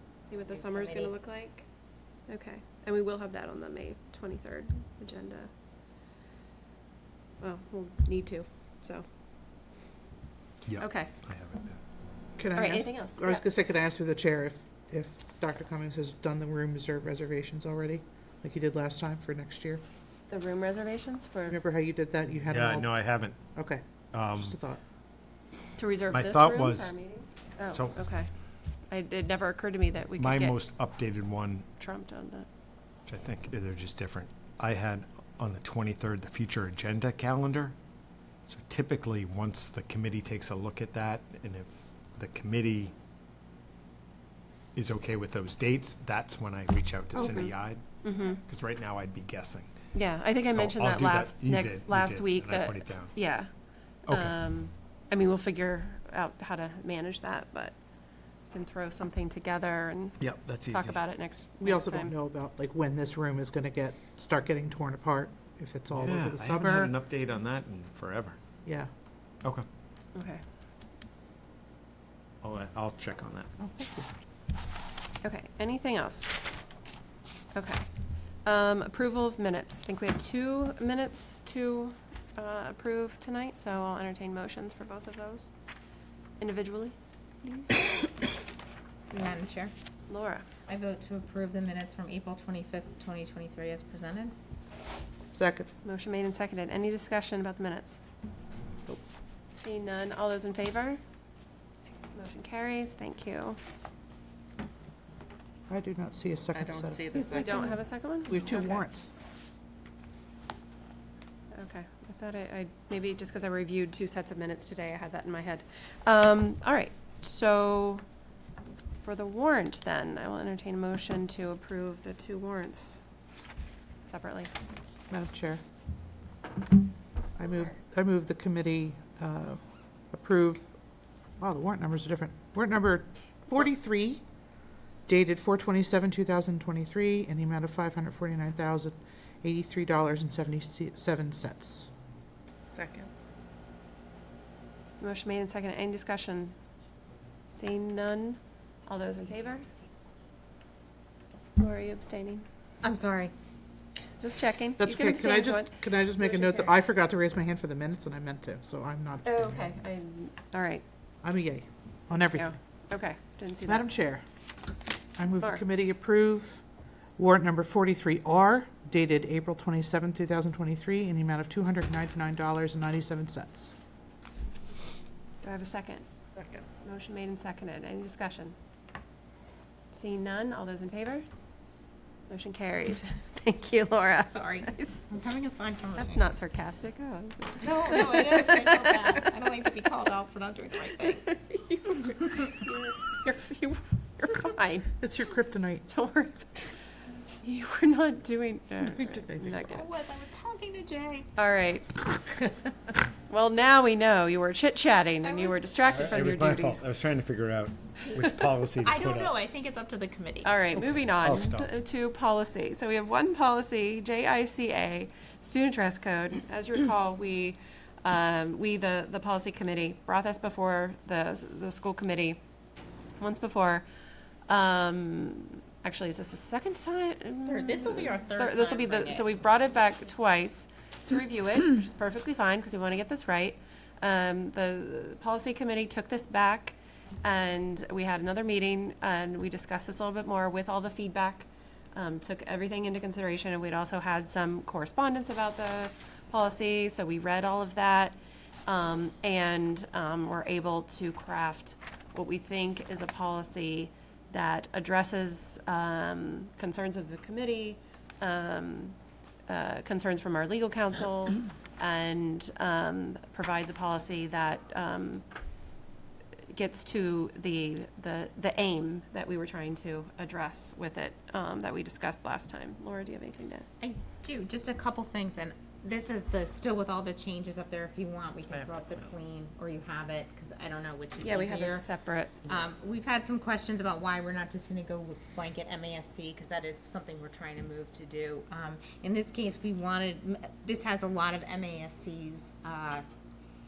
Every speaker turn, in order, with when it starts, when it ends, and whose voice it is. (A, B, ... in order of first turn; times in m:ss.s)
0:00.2-0:01.7 A
0:00.5-0:01.1 B
0:02.3-0:05.5 A
0:07.4-0:09.0 A
0:10.7-0:11.8 C
0:10.8-0:11.1 A
0:12.4-0:19.8 D
0:12.5-0:13.4 A
0:20.3-0:21.6 A
0:21.5-0:23.0 D
0:22.5-0:23.5 C
0:23.5-0:23.8 D
0:24.1-0:24.6 C
0:24.3-0:24.8 D
0:25.8-0:28.3 A
0:26.1-0:27.0 C
0:27.7-0:28.0 C
0:28.9-0:30.6 A
0:30.2-0:31.7 C
0:31.8-0:32.5 A
0:33.1-0:37.7 C
0:38.5-0:42.9 C
0:44.7-0:49.7 C
0:47.2-0:48.4 A
0:49.9-0:53.5 A
0:50.5-0:53.2 C
0:54.1-0:54.4 C
0:54.1-0:57.7 A
0:58.5-1:02.1 A
1:00.2-1:01.0 C
1:01.6-1:06.9 D
1:06.0-1:08.4 C
1:10.2-1:10.4 A
1:12.4-1:13.5 C
1:13.6-1:14.1 D
1:15.2-1:16.4 A
1:17.5-1:17.9 A
1:18.4-1:25.5 A
1:26.4-1:28.1 A
1:29.1-1:29.7 B
1:30.1-1:30.5 A
1:30.7-1:34.3 B
1:35.3-1:35.7 D
1:35.8-1:38.0 A
1:39.6-1:41.0 A
1:42.1-1:43.6 A
1:45.7-1:47.5 D
1:46.9-1:47.8 B
1:47.2-1:48.9 A
1:48.3-1:49.1 D
1:51.5-1:58.0 A
1:59.0-2:03.0 A
2:04.0-2:04.5 A
2:05.1-2:05.6 D
2:07.4-2:09.6 D
2:10.1-2:10.7 D
2:11.4-2:14.2 D
2:15.1-2:21.9 D
2:25.0-2:26.6 A
2:27.5-2:29.7 A
2:31.6-2:32.4 A
2:32.8-2:33.3 B
2:34.2-2:36.9 A
2:34.8-2:39.9 D
2:39.2-2:40.8 A
2:41.2-2:42.6 D
2:42.3-2:43.9 A
2:43.7-2:44.2 D
2:45.2-2:46.6 D
2:47.2-2:53.7 D
2:55.4-2:56.1 A
2:56.8-2:58.6 A
2:59.9-3:01.2 A
3:02.3-3:05.1 A
3:04.3-3:06.3 B
3:06.0-3:08.9 A
3:07.6-3:11.2 B
3:11.0-3:15.0 A
3:15.0-3:15.8 D
3:15.9-3:16.6 A
3:17.4-3:19.9 A
3:18.8-3:19.6 D
3:19.7-3:21.3 B
3:21.4-3:22.4 A
3:23.3-3:27.0 A
3:25.2-3:25.7 B
3:25.9-3:29.3 C
3:28.8-3:30.6 B
3:30.4-3:42.4 A
3:30.8-3:31.7 C
3:43.2-3:43.8 A
3:44.5-4:08.2 A
3:47.4-3:49.6 B
4:08.7-4:19.0 A
4:19.5-4:25.2 A
4:26.5-4:33.6 A
4:33.8-4:41.8 B
4:38.5-4:39.1 C
4:41.2-4:42.4 A
4:42.4-4:53.0 B